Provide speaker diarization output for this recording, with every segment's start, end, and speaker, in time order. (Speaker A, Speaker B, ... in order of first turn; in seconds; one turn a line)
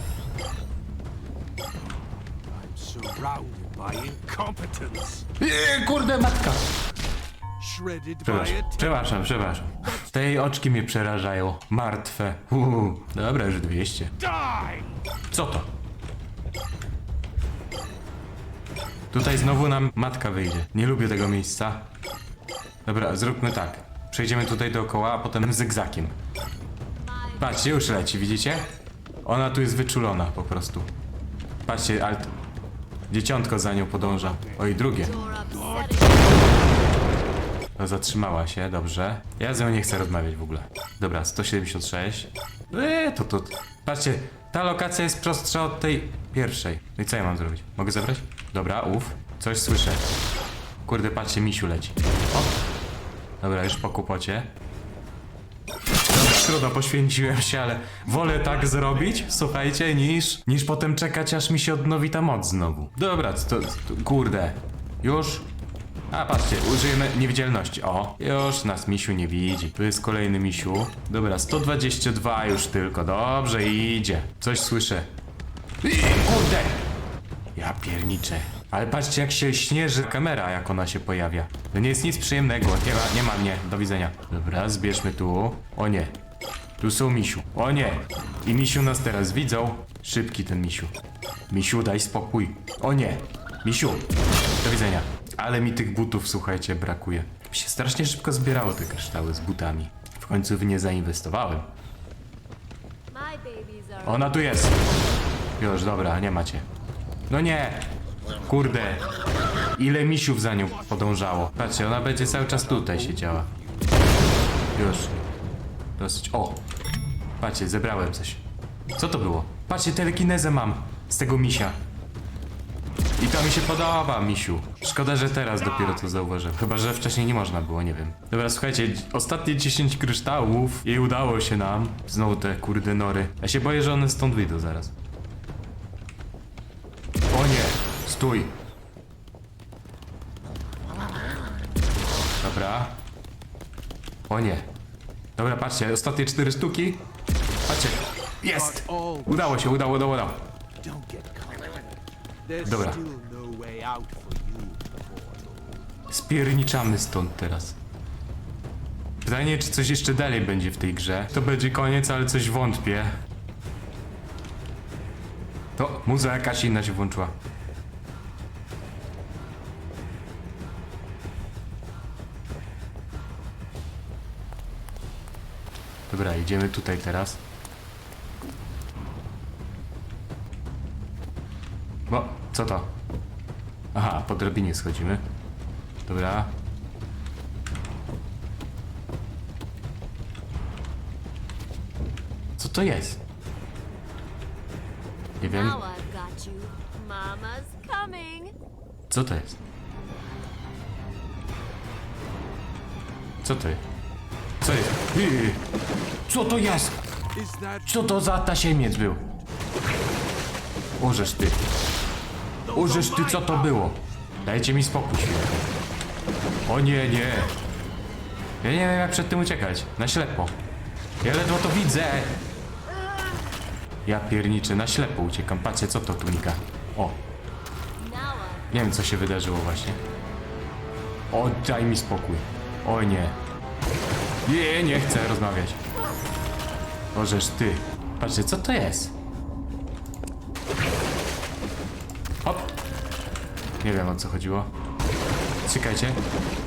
Speaker A: 2.5-5.3
Speaker B: 5.4-6.7
Speaker A: 7.6-9.3
Speaker B: 8.2-14.1
Speaker A: 14.2-15.0
Speaker B: 15.3-15.7
Speaker B: 19.1-21.9
Speaker B: 22.9-26.2
Speaker C: 27.0-27.9
Speaker B: 27.4-30.9
Speaker B: 31.6-32.3
Speaker B: 33.1-35.1
Speaker C: 34.8-36.8
Speaker B: 37.8-50.0
Speaker B: 50.9-52.6
Speaker B: 53.4-54.5
Speaker B: 56.1-65.5
Speaker B: 66.1-75.1
Speaker B: 75.8-76.9
Speaker B: 77.5-86.2
Speaker B: 86.8-90.9
Speaker B: 91.5-94.1
Speaker B: 94.6-101.7
Speaker C: 103.1-104.9
Speaker B: 104.0-104.8
Speaker B: 105.6-106.7
Speaker B: 107.3-109.0
Speaker B: 109.8-113.5
Speaker A: 110.7-114.2
Speaker B: 114.8-115.2
Speaker B: 116.0-116.6
Speaker B: 117.4-118.4
Speaker B: 119.0-121.8
Speaker B: 123.2-134.9
Speaker A: 124.9-126.1
Speaker B: 137.3-138.6
Speaker B: 142.4-143.0
Speaker B: 144.3-144.7
Speaker B: 145.4-147.0
Speaker B: 147.7-150.4
Speaker A: 148.5-149.7
Speaker A: 150.8-155.9
Speaker B: 152.6-153.0
Speaker B: 156.1-157.8
Speaker B: 159.2-163.2
Speaker B: 165.8-167.3
Speaker B: 176.1-177.4
Speaker B: 182.1-182.9
Speaker B: 183.9-185.2
Speaker B: 186.1-186.5
Speaker B: 192.6-193.2
Speaker B: 195.4-195.8
Speaker C: 195.4-198.6
Speaker B: 199.1-199.6
Speaker B: 203.4-203.8
Speaker B: 204.6-205.6
Speaker B: 206.3-207.0
Speaker A: 207.3-209.3
Speaker B: 207.9-209.2
Speaker B: 211.0-211.6
Speaker A: 212.7-213.9
Speaker B: 212.7-215.7
Speaker B: 216.7-217.6
Speaker B: 218.6-220.6
Speaker B: 221.2-222.4
Speaker B: 224.1-227.2
Speaker C: 228.0-229.1
Speaker B: 228.7-230.0
Speaker B: 231.3-233.4
Speaker B: 234.4-235.8
Speaker B: 237.1-239.1
Speaker B: 242.4-242.7
Speaker B: 243.8-244.7
Speaker B: 245.7-246.2